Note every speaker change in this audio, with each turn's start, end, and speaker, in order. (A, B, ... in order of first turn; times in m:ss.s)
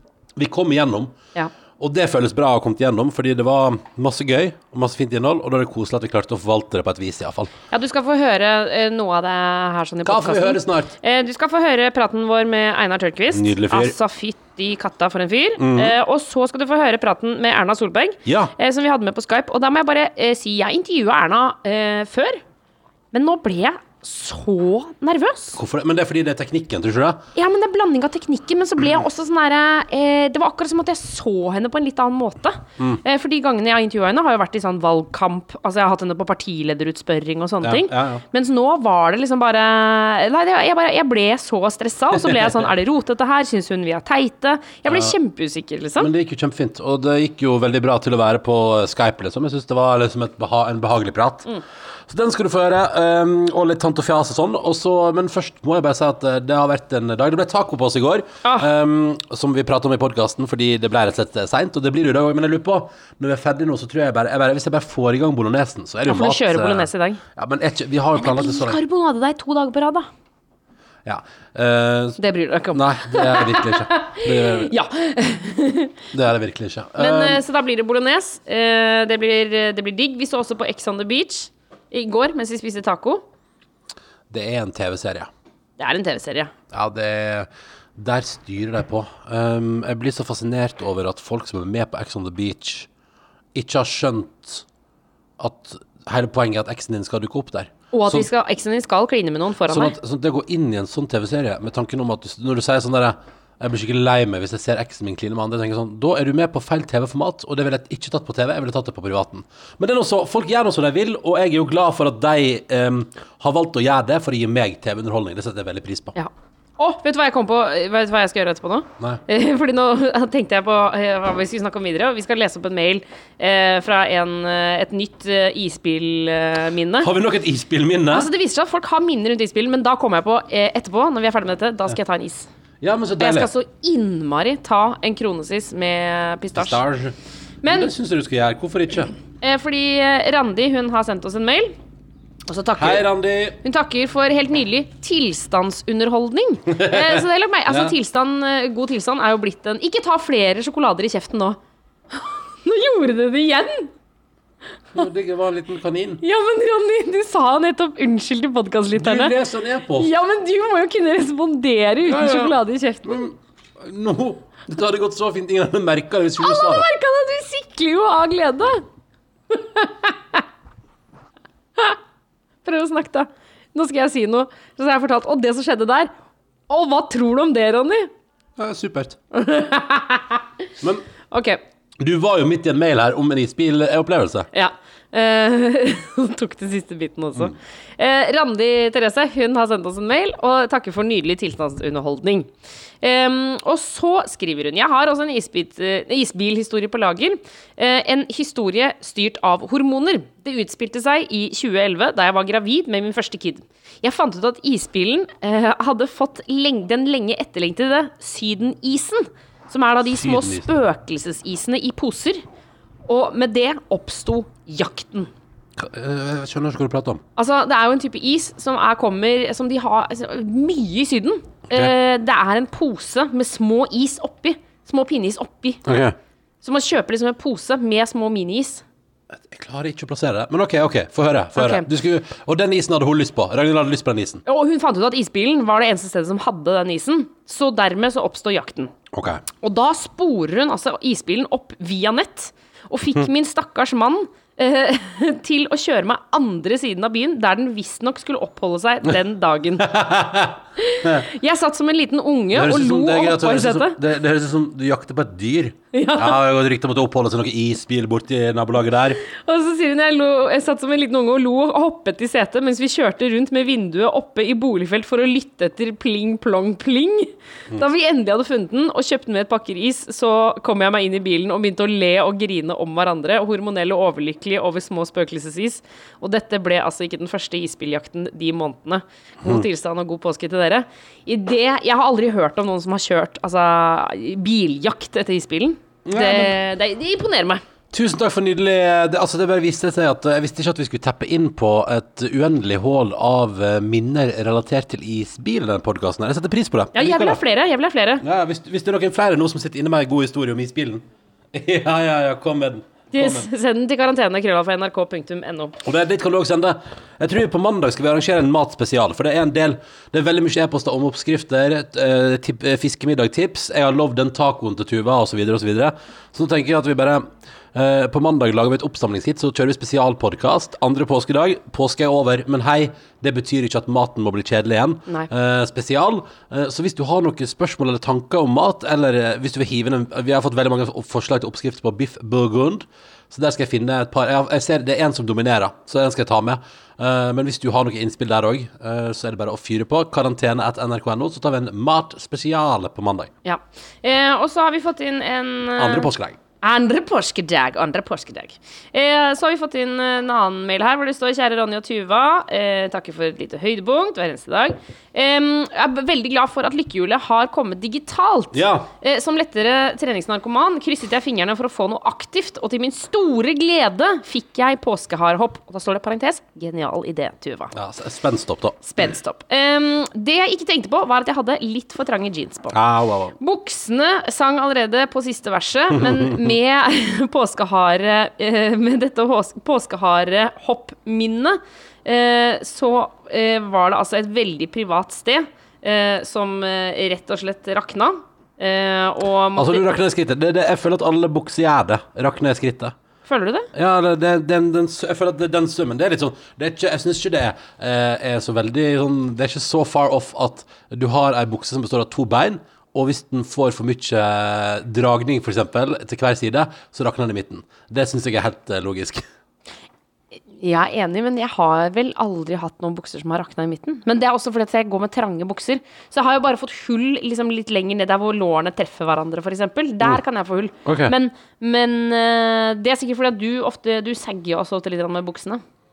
0:00.4-0:01.2 A
0:01.8-0:07.5 A
0:07.7-0:22.4 B
0:10.0-0:11.0 A
0:13.3-0:13.9 A
0:15.6-0:16.0 A
0:18.2-0:18.5 A
0:23.1-0:25.6 B
0:25.6-0:27.2 A
0:27.4-0:46.1 B
0:37.6-0:38.2 A
0:42.2-0:42.5 A
0:44.9-0:45.2 A
0:46.0-0:51.5 A
0:52.1-1:08.8 A
0:58.4-0:58.7 B
1:06.1-1:07.2 B
1:08.2-1:10.1 B
1:11.0-1:12.2 A
1:12.2-1:16.0 B
1:12.7-1:14.7 A
1:16.1-1:17.4 A
1:17.0-1:23.2 B
1:24.3-1:25.3 A
1:25.8-1:26.5 B
1:26.7-1:32.9 A
1:33.6-1:34.6 A
1:35.4-1:38.3 A
1:37.9-1:40.0 B
1:39.7-1:56.2 A
1:56.2-2:07.1 B
2:07.0-2:08.3 A
2:08.1-2:12.5 B
2:12.8-2:13.5 A
2:13.2-2:16.8 B
2:16.6-2:17.2 A
2:17.6-2:17.9 B
2:17.7-2:19.1 A
2:19.4-2:21.8 B
2:22.5-2:23.1 B
2:22.8-2:23.6 A
2:23.6-2:31.6 B
2:26.7-2:28.0 A
2:32.2-2:33.9 B
2:34.9-2:36.2 A
2:36.2-2:39.3 B
2:39.0-2:40.1 A
2:40.0-2:43.3 B
2:42.0-2:46.9 A
2:46.4-2:48.8 B
2:49.5-2:50.4 B
2:52.6-2:56.1 B
2:56.7-2:58.1 B
2:58.6-2:59.2 A
2:59.3-3:00.4 B
3:01.3-3:01.6 B
3:02.0-3:04.5 A
3:04.5-3:12.5 B
3:13.0-3:32.4 B
3:30.1-3:30.6 A
3:33.1-3:35.3 B
3:35.8-3:37.2 A
3:37.4-3:45.8 B
3:45.9-3:46.2 A
3:46.6-3:48.8 B
3:49.4-3:54.4 A
3:51.6-3:51.9 B
3:54.5-3:58.9 B
3:59.1-3:59.4 A
3:59.6-4:09.9 B
4:09.8-4:11.3 A
4:10.8-4:14.0 B
4:12.5-4:19.2 A
4:15.9-4:16.4 B
4:19.3-4:47.6 B
4:46.0-4:46.6 A
4:47.9-4:57.4 A
4:57.0-4:58.2 B
4:58.2-5:03.5 A
5:03.1-5:05.8 B
5:05.8-5:43.3 A
5:43.4-5:46.1 B
5:45.8-5:46.4 A
5:46.6-6:07.7 B
5:58.5-5:58.9 A
6:07.7-6:08.8 A
6:08.8-6:12.8 B
6:12.7-6:13.4 A
6:13.4-6:30.0 B
6:16.0-6:16.5 A
6:29.6-6:33.0 A
6:33.3-6:33.7 B
6:33.7-6:49.2 A
6:50.6-7:05.6 B
7:00.8-7:01.1 A